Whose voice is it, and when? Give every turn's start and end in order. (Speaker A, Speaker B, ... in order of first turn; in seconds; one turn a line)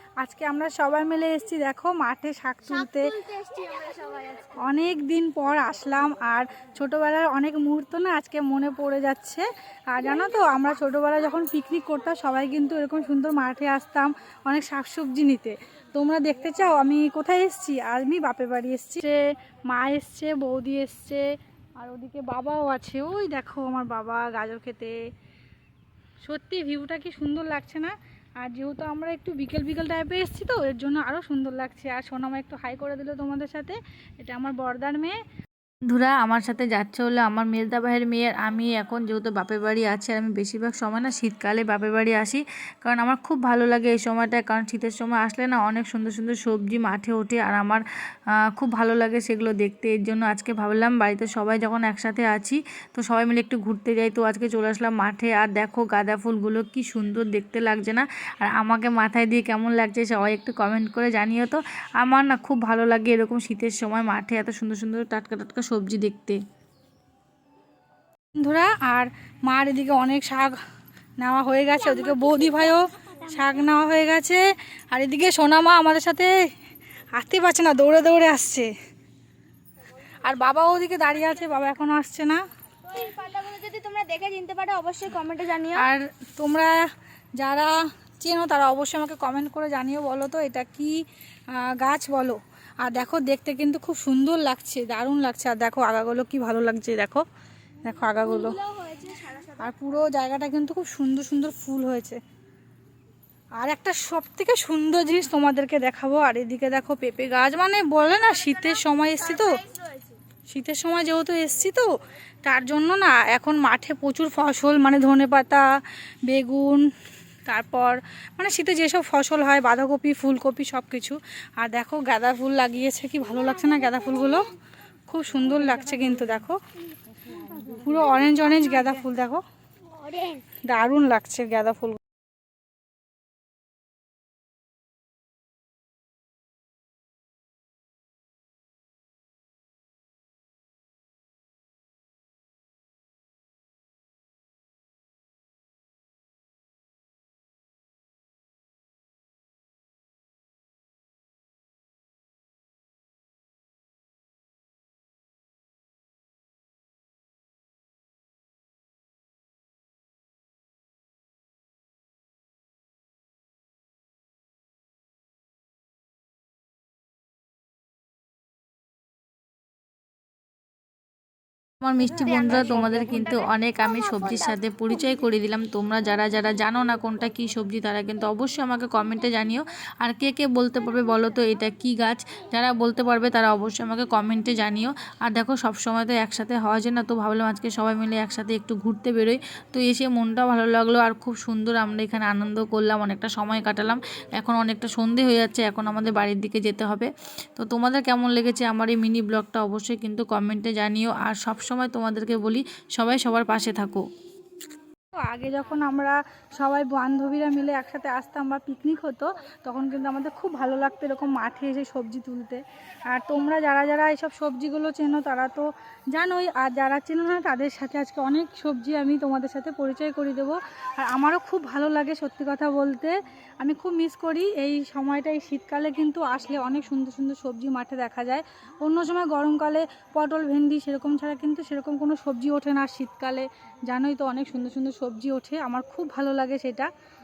Speaker A: 0.2-3.3
Speaker B: 3.4-4.3
Speaker A: 4.4-24.9
Speaker A: 26.2-35.2
Speaker C: 35.9-47.8
Speaker C: 48.5-66.4
Speaker A: 68.3-70.6
Speaker A: 71.2-76.3
Speaker A: 77.1-78.7
Speaker A: 80.2-82.4
Speaker B: 82.9-85.8
Speaker A: 85.6-86.8
Speaker A: 87.4-97.2
Speaker A: 97.8-102.2
Speaker B: 98.7-99.2
Speaker A: 103.6-109.8
Speaker A: 110.5-115.6
Speaker A: 116.3-116.9
Speaker A: 117.5-124.5
Speaker A: 125.1-126.6
Speaker A: 127.5-129.4
Speaker A: 130.6-132.0
Speaker C: 171.8-204.0
Speaker A: 205.2-236.9